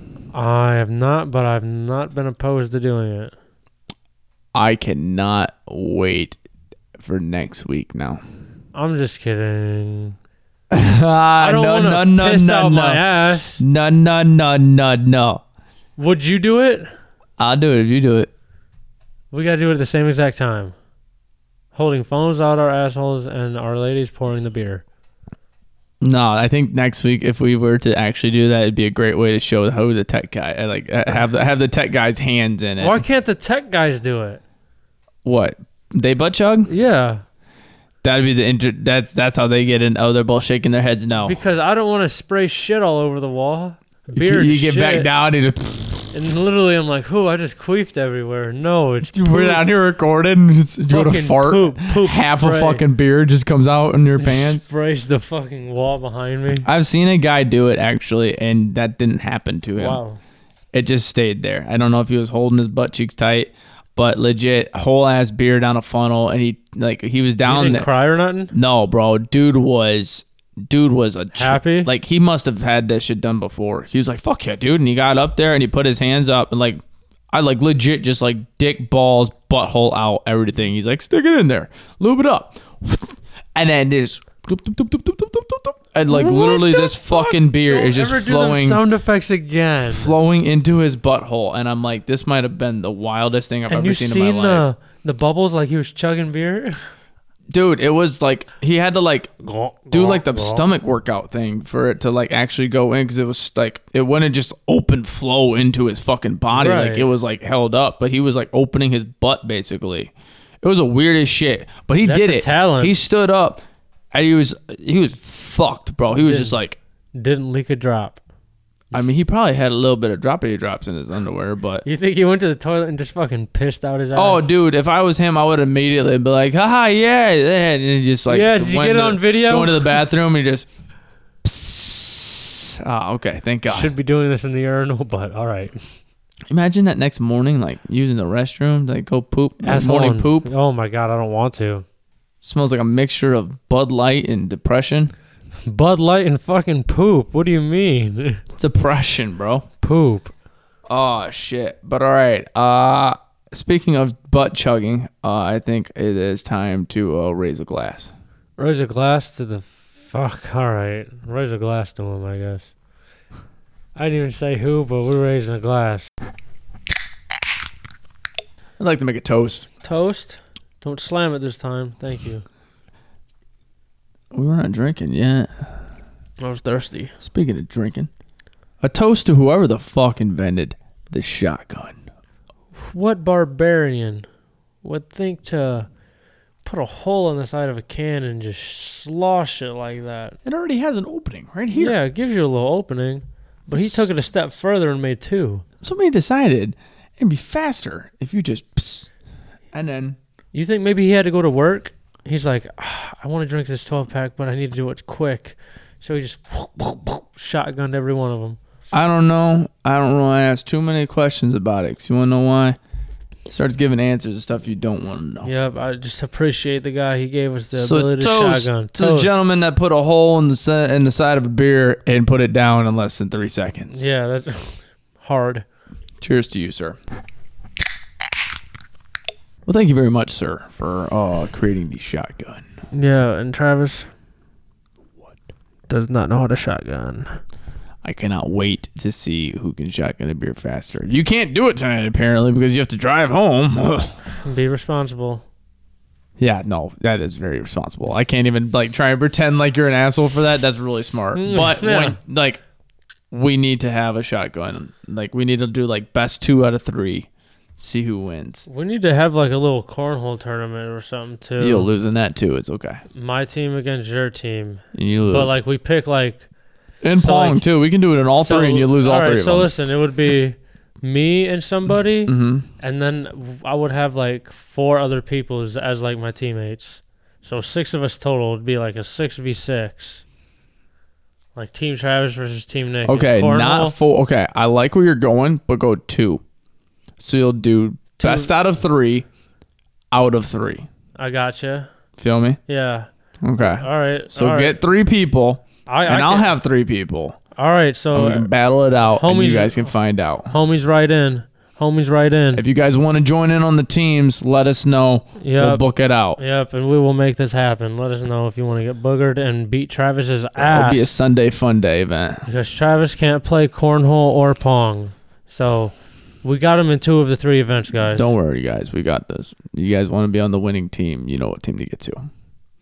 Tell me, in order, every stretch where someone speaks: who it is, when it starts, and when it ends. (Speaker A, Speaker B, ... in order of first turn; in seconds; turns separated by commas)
Speaker A: 0.3-3.3, Speaker B: 4.5-6.4, Speaker B: 7.0-8.2, Speaker A: 8.7-10.2, Speaker B: 10.7-13.0, Speaker A: 11.4-13.6, Speaker B: 13.6-15.4, Speaker A: 16.0-16.9, Speaker B: 17.4-18.3, Speaker A: 19.3-20.7, Speaker A: 21.7-24.8, Speaker B: 26.0-33.0, Speaker A: 32.8-34.4, Speaker B: 35.2-36.7, Speaker A: 36.7-37.2, Speaker B: 38.0-41.4, Speaker A: 41.2-45.1, Speaker B: 44.1-46.1, Speaker A: 46.1-49.6, Speaker B: 49.1-54.7, Speaker A: 50.9-52.8, Speaker A: 54.2-56.7, Speaker B: 56.6-60.0, Speaker A: 59.8-60.2, Speaker B: 60.7-67.9, Speaker A: 67.4-68.5, Speaker B: 68.5-76.8, Speaker A: 71.3-71.9, Speaker B: 77.3-88.8, Speaker A: 86.1-90.1, Speaker B: 89.9-94.7, Speaker A: 93.7-96.8, Speaker B: 97.5-99.3, Speaker A: 99.4-100.7, Speaker B: 99.9-113.6, Speaker A: 106.5-107.1, Speaker A: 112.0-112.9, Speaker B: 114.1-116.8, Speaker A: 116.1-116.5, Speaker A: 117.1-118.2, Speaker B: 118.9-121.8, Speaker A: 121.8-124.5, Speaker B: 124.1-130.7, Speaker A: 128.3-130.0, Speaker B: 131.4-133.9, Speaker A: 133.6-135.9, Speaker B: 136.5-140.5, Speaker A: 139.6-141.8, Speaker B: 142.4-145.1, Speaker A: 145.7-148.4, Speaker B: 148.5-149.7, Speaker A: 149.8-150.3, Speaker B: 150.9-158.1, Speaker A: 158.6-162.7, Speaker A: 163.9-166.1, Speaker B: 168.8-169.7, Speaker A: 169.8-172.4, Speaker B: 174.3-175.7, Speaker A: 176.4-177.1, Speaker B: 177.2-178.1, Speaker B: 178.8-182.0, Speaker A: 182.8-184.2, Speaker A: 184.8-185.9, Speaker A: 186.6-190.4, Speaker B: 190.4-191.9, Speaker A: 191.7-195.6, Speaker B: 193.7-194.1, Speaker B: 195.8-199.1, Speaker B: 199.7-200.2, Speaker A: 200.5-208.6, Speaker B: 208.9-212.8, Speaker B: 213.5-215.5, Speaker A: 215.4-219.3, Speaker B: 217.7-224.1, Speaker A: 223.9-225.6, Speaker B: 226.2-227.0, Speaker B: 229.7-232.6, Speaker A: 232.9-234.1, Speaker A: 235.9-237.4, Speaker B: 238.0-244.2, Speaker A: 244.4-245.4, Speaker B: 246.4-252.6, Speaker A: 251.3-252.2, Speaker B: 253.3-258.6, Speaker A: 258.7-261.9, Speaker B: 261.6-263.0, Speaker A: 263.1-266.4, Speaker B: 264.9-265.6, Speaker B: 267.0-269.7, Speaker A: 267.2-267.6, Speaker A: 268.4-280.2, Speaker B: 272.3-272.7, Speaker A: 281.5-283.9, Speaker B: 283.0-286.4, Speaker B: 287.2-289.3, Speaker A: 288.2-288.5, Speaker B: 290.1-290.9, Speaker A: 291.2-291.9, Speaker B: 292.2-292.6, Speaker A: 292.7-293.1, Speaker B: 293.4-297.4, Speaker A: 293.6-294.8, Speaker A: 295.9-296.5, Speaker A: 297.5-298.5, Speaker B: 298.1-300.5, Speaker A: 299.1-299.9, Speaker A: 300.5-302.6, Speaker B: 302.5-306.4, Speaker A: 305.4-305.8, Speaker A: 306.4-311.1, Speaker B: 310.6-312.5, Speaker A: 312.5-318.3, Speaker B: 318.1-322.3